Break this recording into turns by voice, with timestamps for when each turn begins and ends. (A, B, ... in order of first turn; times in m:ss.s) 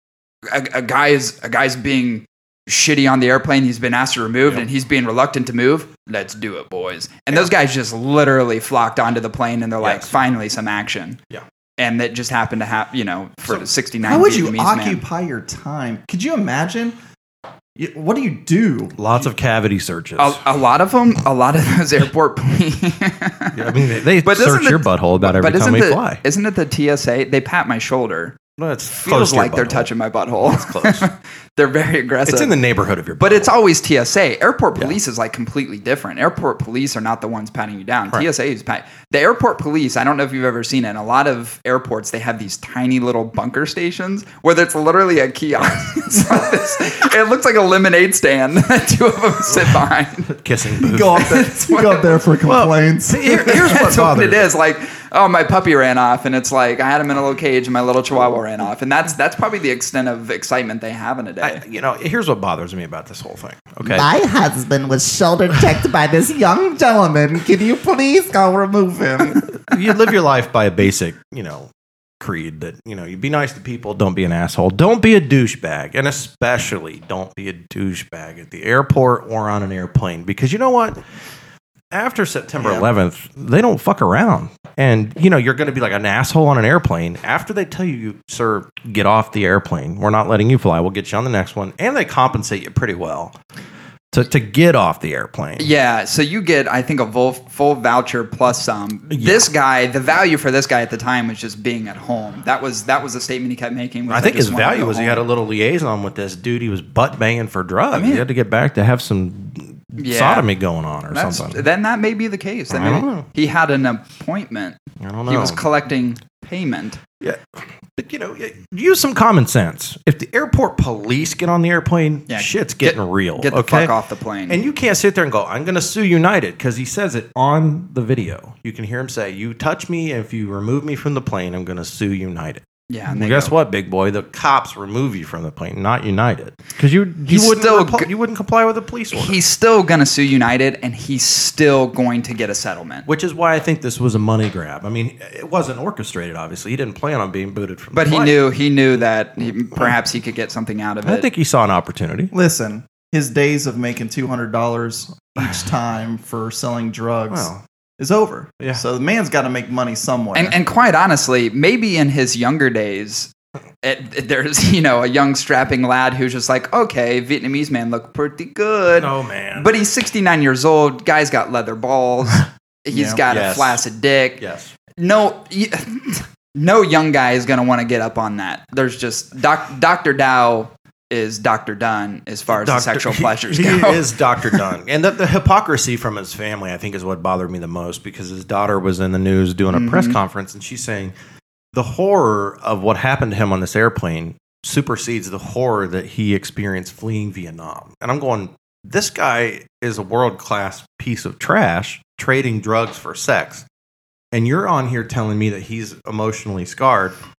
0:00.5-0:11.2 A
0:09.8-0:10.2 B
0:11.8-0:15.0 A
0:14.0-0:17.0 C
0:17.8-0:19.2 C
0:19.0-0:20.4 B
0:20.2-0:23.7 A
0:23.5-0:26.2 B
0:24.2-0:28.4 A
0:28.6-0:31.1 B
0:28.9-0:32.6 A
0:32.3-0:33.5 B
0:33.2-0:50.3 A
0:50.3-0:51.2 B
0:50.8-0:53.7 C
0:51.1-0:52.2 A
0:52.5-0:54.5 B
0:53.4-1:01.6 A
1:01.4-1:04.1 B
1:03.8-1:09.4 C
1:09.6-1:21.0 B
1:21.9-1:33.4 B
1:22.6-1:22.9 C
1:34.1-1:35.7 B
1:35.6-1:45.2 A
1:39.1-1:39.5 B
1:44.1-1:51.6 B
1:47.9-1:48.2 A
1:50.0-1:50.5 A
1:51.1-1:57.0 A
1:52.7-1:53.3 B
1:55.0-1:55.6 B
1:57.2-2:04.0 B
2:02.3-2:04.6 A
2:04.5-2:19.4 B
2:12.9-2:13.6 A
2:17.3-2:18.1 A
2:19.1-2:23.1 A
2:23.1-2:28.4 B
2:27.9-2:31.3 A
2:31.0-2:32.3 B
2:32.3-2:40.6 C
2:35.4-2:35.7 B
2:37.3-2:37.6 B
2:40.3-2:43.3 A
2:43.8-2:54.4 A
2:49.0-2:49.7 B
2:52.9-2:53.2 C
2:53.3-2:53.8 B
2:54.4-2:54.7 B
2:55.0-3:04.7 A
3:02.5-3:11.1 B
3:09.7-3:10.2 A
3:11.7-3:23.6 B
3:24.3-3:27.2 B